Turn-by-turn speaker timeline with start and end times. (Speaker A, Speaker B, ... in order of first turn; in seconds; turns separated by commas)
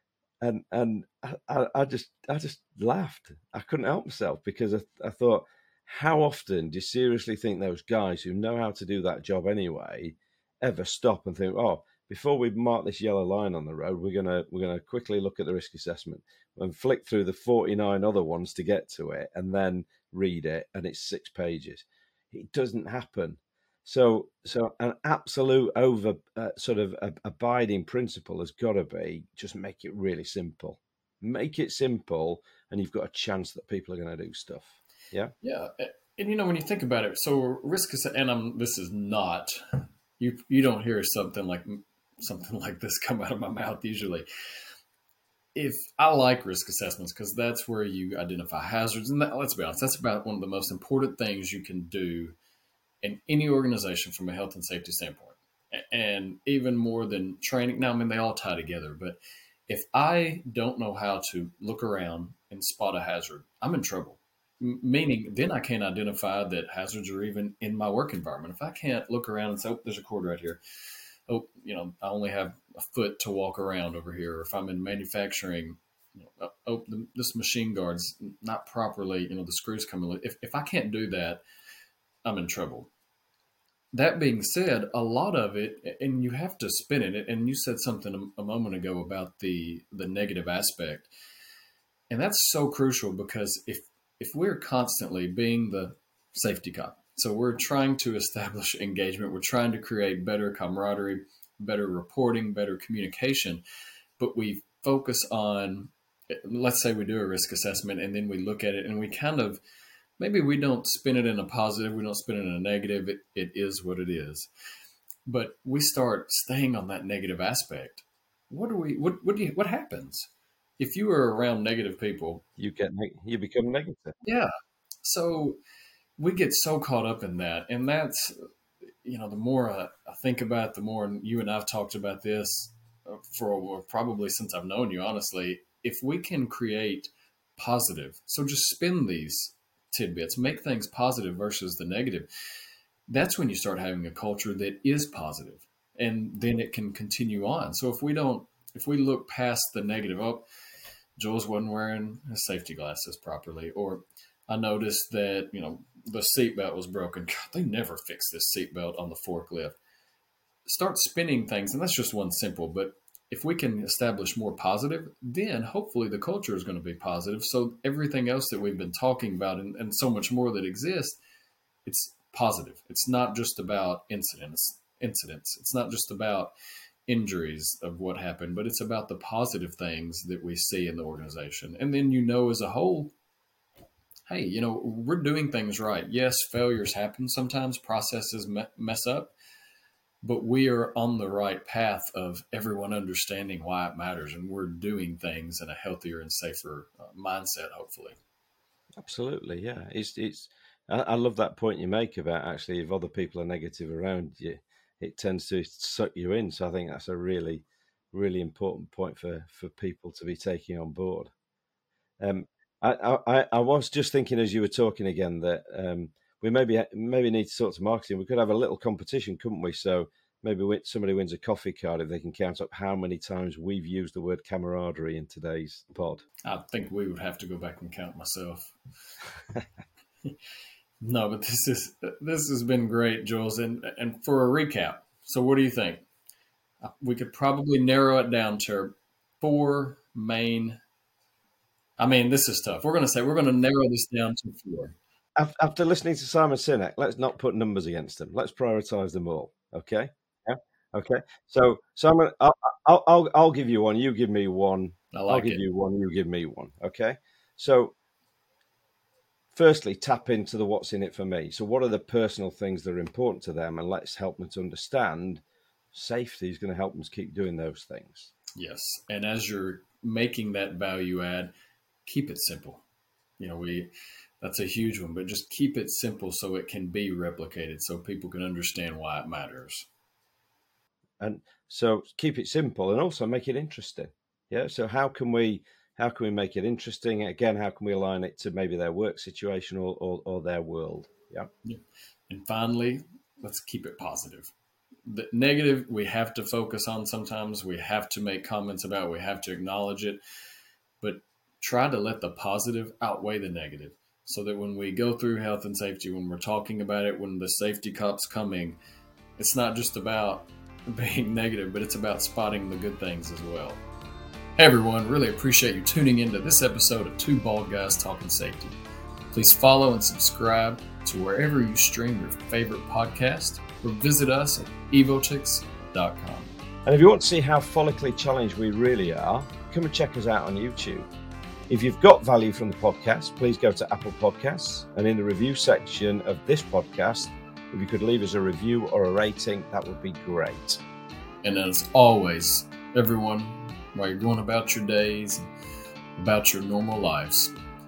Speaker A: 0.4-35.3, Speaker B: 35.4-44.3, Speaker B: 45.5-52.4, Speaker B: 53.0-70.6, Speaker B: 71.3-81.4, Speaker B: 82.2-82.9, Speaker B: 83.9-91.1, Speaker B: 92.1-103.6, Speaker B: 104.2-109.6, Speaker B: 110.2-114.5, Speaker B: 115.3-122.5, Speaker A: 122.6-124.2, Speaker B: 124.2-124.5, Speaker B: 125.0-125.6, Speaker B: 126.2-128.5, Speaker B: 129.0-142.3, Speaker B: 143.1-150.5, Speaker B: 151.2-159.8, Speaker B: 160.7-171.2, Speaker B: 171.9-176.5, Speaker B: 177.1-183.1, Speaker B: 184.3-189.3, Speaker B: 190.2-198.2, Speaker A: 199.0-211.3, Speaker A: 212.2-226.2, Speaker B: 226.4-228.8, Speaker B: 231.0-236.1, Speaker B: 236.8-240.8, Speaker B: 242.0-245.0, Speaker A: 245.4-257.9, Speaker B: 255.1-255.6, Speaker A: 259.5-265.4, Speaker A: 265.9-268.3, Speaker B: 268.6-271.5, Speaker B: 272.1-272.8, Speaker B: 273.4-273.9, Speaker B: 274.4-279.9, Speaker A: 281.2-291.5, Speaker B: 291.6-294.5, Speaker B: 295.1-300.2, Speaker B: 301.0-308.8, Speaker B: 309.4-313.8, Speaker B: 314.6-318.8, Speaker B: 319.3-326.6, Speaker A: 326.9-331.1, Speaker A: 331.7-340.8, Speaker B: 341.4-345.4, Speaker B: 346.2-347.5